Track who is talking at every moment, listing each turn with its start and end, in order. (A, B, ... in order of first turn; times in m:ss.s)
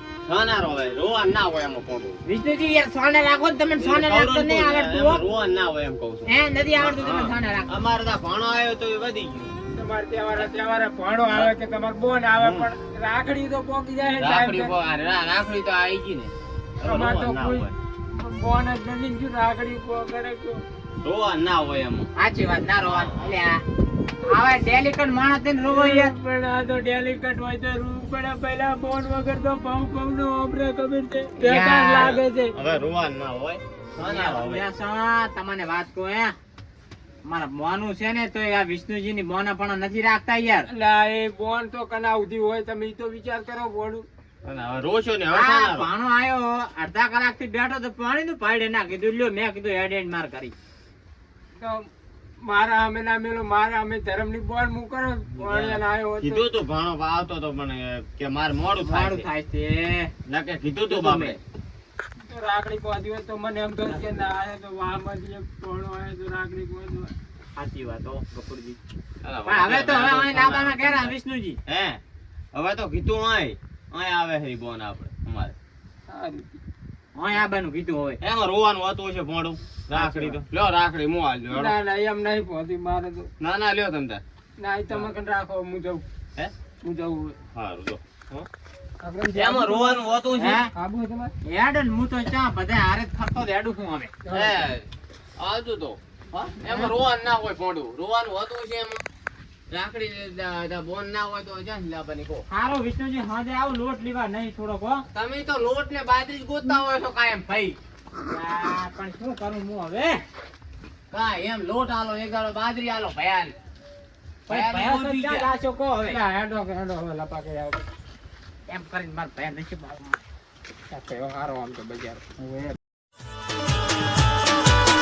0:00.2-0:02.2 A
0:02.2-0:05.2 B
0:03.8-0:09.6 A
0:06.3-0:07.7 B
0:09.7-0:14.7 C
0:12.4-0:12.7 A
0:14.2-0:17.7 A
0:16.8-0:20.6 C
0:21.0-0:22.1 A
0:22.2-0:23.6 B
0:22.8-0:23.3 A
0:24.2-0:26.1 B
0:25.7-0:32.5 C
0:31.4-0:32.1 B
0:31.9-0:34.6 A
0:34.0-0:36.3 B
0:37.2-0:40.7 B
0:40.7-0:44.0 C
0:44.4-0:45.9 A
0:45.3-0:50.5 B
0:51.6-0:51.8 C
0:52.4-0:56.4 C
0:55.4-0:59.3 A
0:58.8-1:00.1 B
1:00.3-1:01.4 A
1:00.9-1:01.4 B
1:02.3-1:07.1 C
1:07.6-1:08.8 B
1:09.2-1:11.1 A
1:09.4-1:11.6 B
1:11.7-1:12.0 A
1:12.5-1:15.5 A
1:16.1-1:16.6 C
1:17.2-1:18.2 B
1:18.2-1:21.7 A
1:19.9-1:20.3 C
1:21.5-1:23.3 C
1:23.4-1:24.2 A
1:24.6-1:26.0 C
1:26.8-1:27.4 C
1:27.5-1:28.0 A
1:29.0-1:30.0 C
1:29.3-1:30.6 A
1:30.4-1:30.7 B
1:30.7-1:31.3 C
1:31.5-1:34.1 B
1:34.2-1:34.6 C
1:34.3-1:34.9 A
1:35.4-1:39.0 A
1:36.6-1:36.9 B
1:39.7-1:42.4 A
1:42.5-1:45.0 B
1:45.1-1:47.8 A
1:48.3-1:50.2 B
1:51.1-1:53.5 A
1:54.5-1:56.2 B
1:54.5-1:55.5 A
1:56.1-1:57.9 C
1:58.7-2:00.2 B
2:00.9-2:02.7 C